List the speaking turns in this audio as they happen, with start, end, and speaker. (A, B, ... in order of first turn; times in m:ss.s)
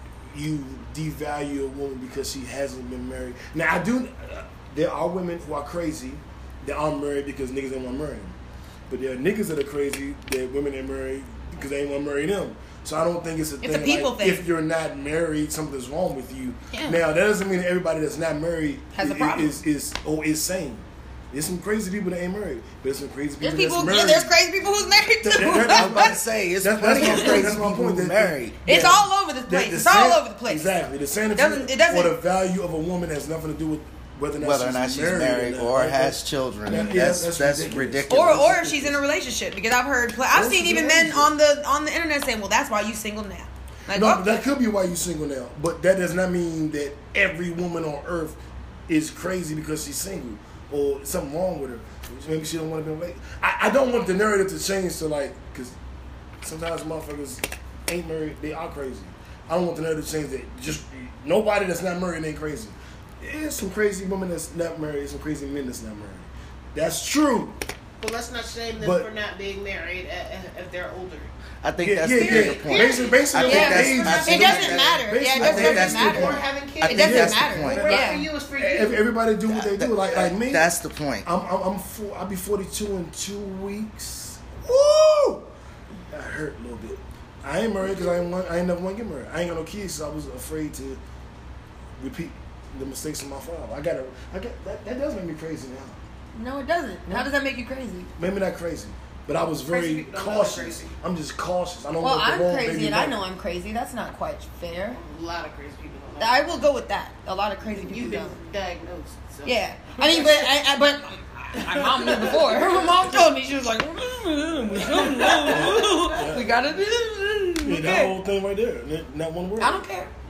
0:00.3-0:08.4 A
0:08.9-0:24.3 A
0:13.6-0:14.4 B
0:16.7-0:17.0 B
0:18.9-0:19.6 B
0:23.4-0:26.2 B
0:25.2-0:39.0 A
0:25.4-0:28.6 C
0:27.0-0:27.4 B
0:28.6-0:30.7 B
0:31.3-0:32.2 B
0:34.4-0:38.5 C
0:38.1-0:44.2 B
0:40.3-0:41.3 A
0:43.9-0:55.8 A
0:56.4-1:07.6 A
1:08.0-1:11.3 D
1:08.8-1:09.1 A
1:11.6-1:18.0 C
1:11.8-1:18.0 A
1:12.0-1:14.8 D
1:13.4-1:18.3 B
1:15.5-1:19.0 D
1:18.6-1:20.7 A
1:19.5-1:21.3 C
1:21.2-1:25.5 A
1:26.1-1:31.0 A
1:32.0-1:36.0 A
1:36.3-1:38.1 B
1:38.2-1:43.2 A
1:39.7-1:41.0 D
1:42.0-1:45.0 B
1:44.9-1:46.5 D
1:46.2-1:48.4 B
1:47.7-1:50.5 D
1:49.4-1:58.1 B
1:51.6-1:53.0 D
1:54.8-1:56.6 A
1:55.1-1:55.6 D
1:57.6-1:59.8 A
1:59.6-2:00.1 B